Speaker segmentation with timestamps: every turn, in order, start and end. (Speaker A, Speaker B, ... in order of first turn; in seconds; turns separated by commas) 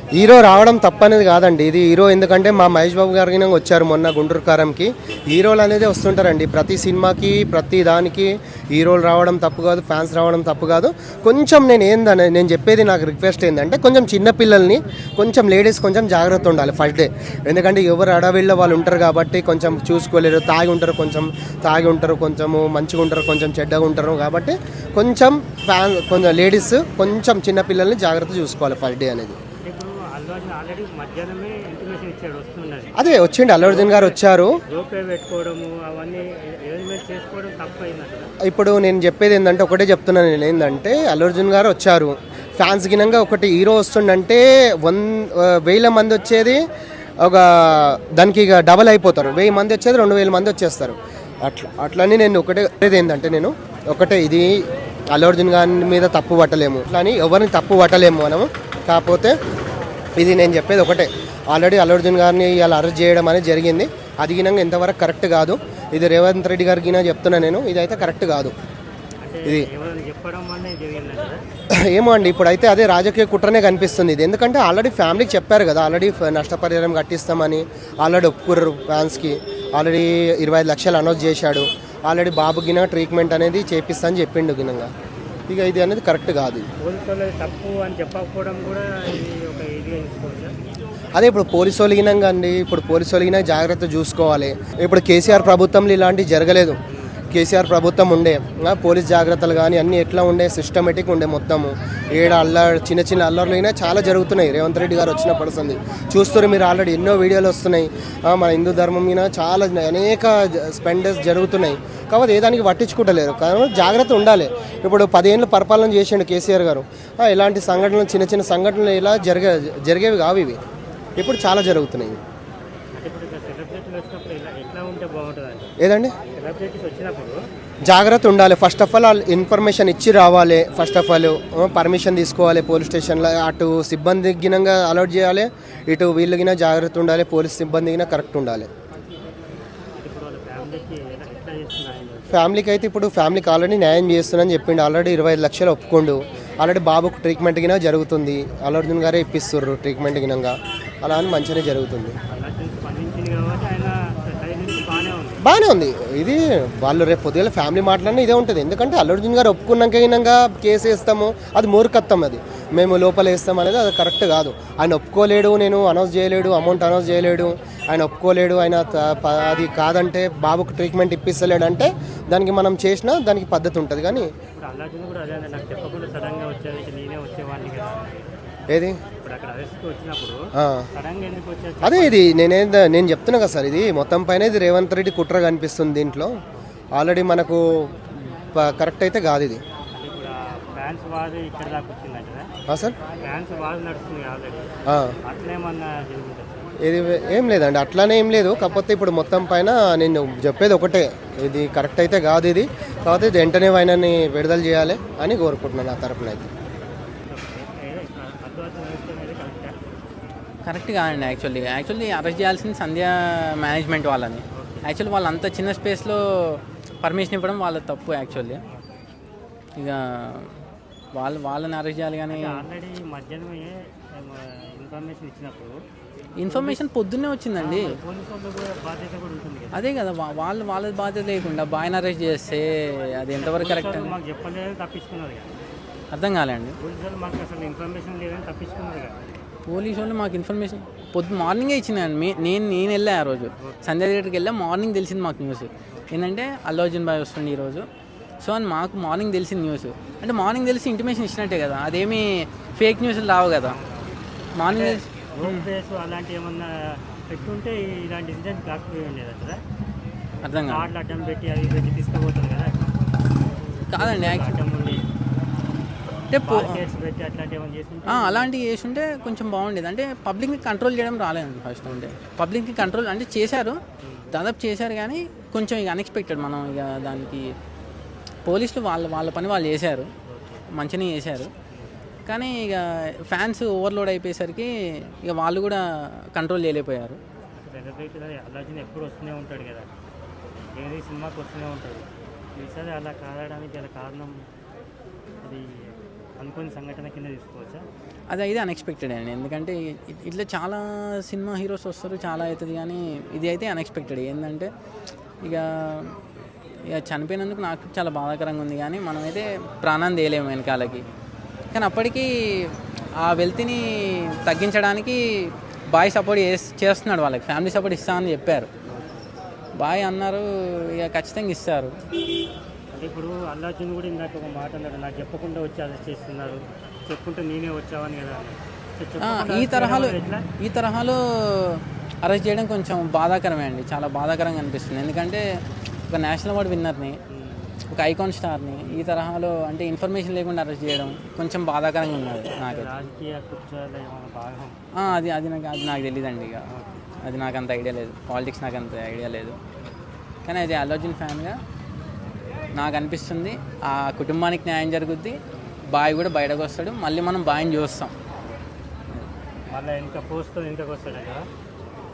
Speaker A: 0.2-29.4, Speaker B: 29.6-32.9, Speaker A: 33.0-34.6, Speaker B: 33.6-38.3, Speaker A: 38.4-46.6, Speaker A: 47.2-54.5, Speaker A: 55.1-59.3, Speaker A: 60.2-68.5, Speaker B: 69.2-71.4, Speaker A: 71.8-84.9, Speaker A: 85.5-86.7, Speaker B: 86.8-90.5, Speaker A: 91.2-96.8, Speaker A: 97.3-120.6, Speaker A: 121.2-122.2, Speaker B: 123.0-125.7, Speaker A: 125.8-126.1, Speaker B: 126.3-127.4, Speaker A: 127.8-138.7, Speaker B: 140.0-142.4, Speaker A: 142.3-152.2, Speaker B: 152.3-155.4, Speaker A: 155.4-174.3, Speaker B: 174.6-178.2, Speaker A: 178.7-179.0, Speaker B: 179.2-180.4, Speaker A: 180.6-180.8, Speaker B: 180.9-182.3, Speaker A: 181.8-186.3, Speaker A: 186.9-189.6, Speaker B: 189.9-192.5, Speaker A: 192.7-192.9, Speaker B: 193.2-196.7, Speaker A: 194.9-195.2, Speaker A: 196.8-206.5, Speaker B: 207.3-209.8, Speaker C: 210.6-218.6, Speaker B: 214.5-214.9, Speaker C: 219.8-220.5, Speaker C: 221.2-222.6, Speaker B: 222.3-225.8, Speaker C: 226.4-228.0, Speaker B: 226.5-226.8, Speaker B: 227.6-229.8, Speaker C: 229.7-234.2, Speaker B: 233.4-235.5, Speaker C: 236.1-236.8, Speaker B: 236.8-239.2, Speaker C: 239.7-247.8, Speaker C: 248.4-253.8, Speaker C: 254.6-255.7, Speaker B: 254.7-256.7, Speaker B: 257.3-259.6, Speaker C: 260.4-260.9, Speaker B: 260.7-262.8, Speaker C: 263.9-264.5, Speaker B: 264.0-265.0, Speaker C: 266.3-266.8, Speaker B: 266.4-268.5, Speaker C: 268.1-273.8, Speaker B: 274.0-274.3, Speaker C: 274.3-277.5, Speaker C: 278.5-280.1, Speaker B: 280.3-280.6, Speaker C: 280.8-281.5, Speaker C: 282.3-285.8, Speaker C: 286.4-287.2, Speaker B: 287.6-289.9, Speaker B: 290.7-294.4, Speaker B: 295.4-295.7, Speaker B: 296.4-297.8, Speaker C: 298.3-304.7, Speaker C: 305.4-306.2, Speaker C: 306.9-311.0, Speaker C: 311.7-318.7, Speaker C: 319.8-322.0, Speaker B: 322.9-330.4, Speaker C: 329.2-335.4, Speaker C: 336.1-337.2, Speaker B: 337.3-337.7, Speaker C: 337.9-342.9, Speaker B: 342.6-344.8, Speaker C: 345.0-346.6, Speaker C: 347.2-349.6, Speaker C: 350.5-351.6, Speaker C: 352.8-355.4, Speaker C: 355.9-358.1, Speaker B: 359.7-361.4